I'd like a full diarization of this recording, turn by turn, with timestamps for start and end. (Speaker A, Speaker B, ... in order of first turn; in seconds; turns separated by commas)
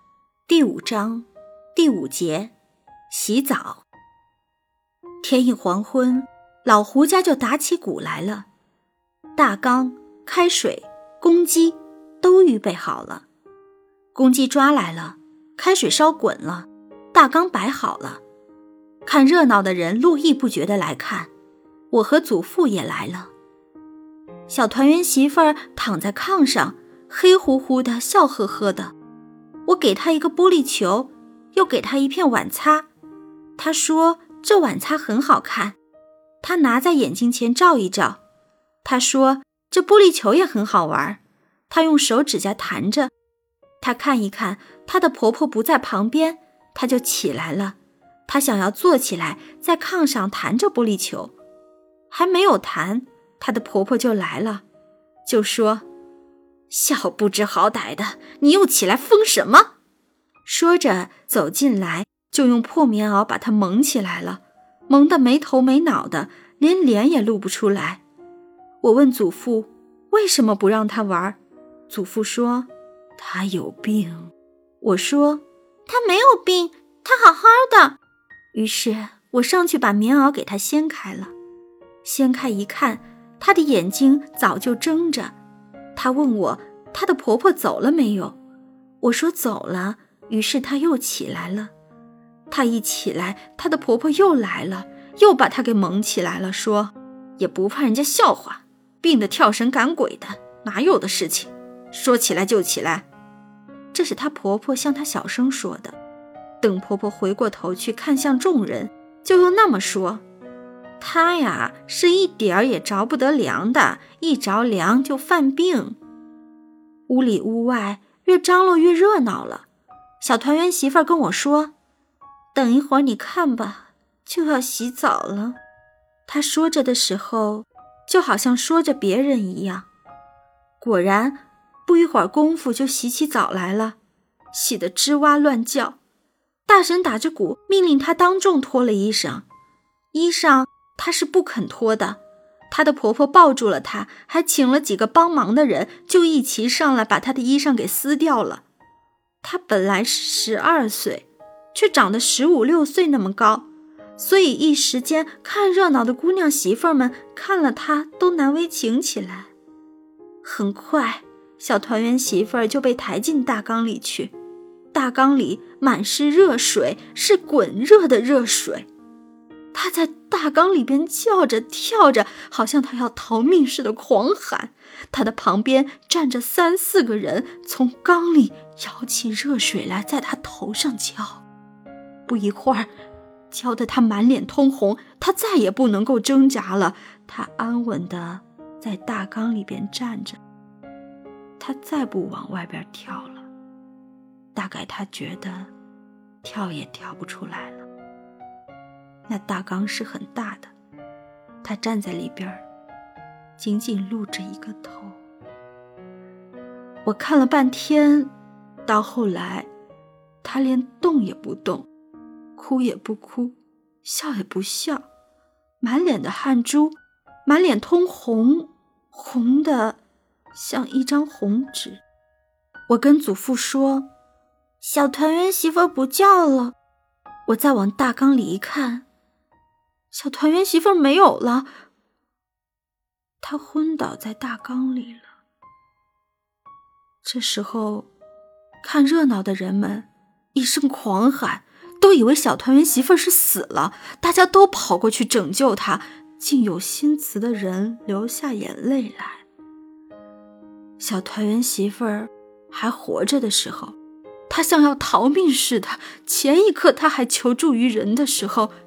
Speaker A: 0.5-2.5, Speaker A: 3.1-3.8, Speaker A: 5.2-8.5, Speaker A: 9.3-13.2, Speaker A: 14.1-18.2, Speaker A: 19.0-21.3, Speaker A: 21.9-23.3, Speaker A: 24.5-28.9, Speaker A: 29.6-32.9, Speaker A: 33.6-35.8, Speaker A: 36.4-38.2, Speaker A: 38.8-43.1, Speaker A: 43.8-51.3, Speaker A: 52.1-54.6, Speaker A: 55.2-55.8, Speaker A: 56.7-59.7, Speaker A: 60.5-68.0, Speaker A: 68.8-78.0, Speaker A: 78.5-81.3, Speaker A: 82.0-85.3, Speaker A: 85.9-88.4, Speaker A: 89.0-91.7, Speaker A: 92.5-103.0, Speaker A: 103.9-106.0, Speaker A: 106.6-110.2, Speaker A: 111.0-116.0, Speaker A: 117.1-119.7, Speaker A: 120.2-121.7, Speaker A: 122.5-125.6, Speaker A: 126.3-129.9, Speaker A: 130.8-133.9, Speaker A: 134.5-136.0, Speaker A: 136.7-139.4, Speaker A: 140.1-148.6, Speaker A: 149.4-159.5, Speaker A: 160.4-164.3, Speaker A: 164.9-168.9, Speaker A: 169.7-181.4, Speaker A: 182.2-182.9, Speaker A: 183.5-190.4, Speaker A: 191.6-193.5, Speaker A: 194.5-195.7, Speaker A: 196.4-197.8, Speaker A: 199.3-200.7, Speaker A: 201.6-202.6, Speaker A: 203.6-205.2, Speaker A: 207.0-208.3, Speaker A: 208.8-209.7, Speaker A: 210.4-211.9, Speaker A: 212.6-215.1, Speaker A: 215.8-220.0, Speaker A: 220.5-222.0, Speaker A: 222.9-224.1, Speaker A: 224.8-226.8, Speaker A: 227.5-229.1, Speaker A: 230.1-231.7, Speaker A: 233.4-235.3, Speaker A: 237.2-238.1, Speaker A: 238.8-249.4, Speaker A: 251.0-253.9, Speaker A: 254.5-258.7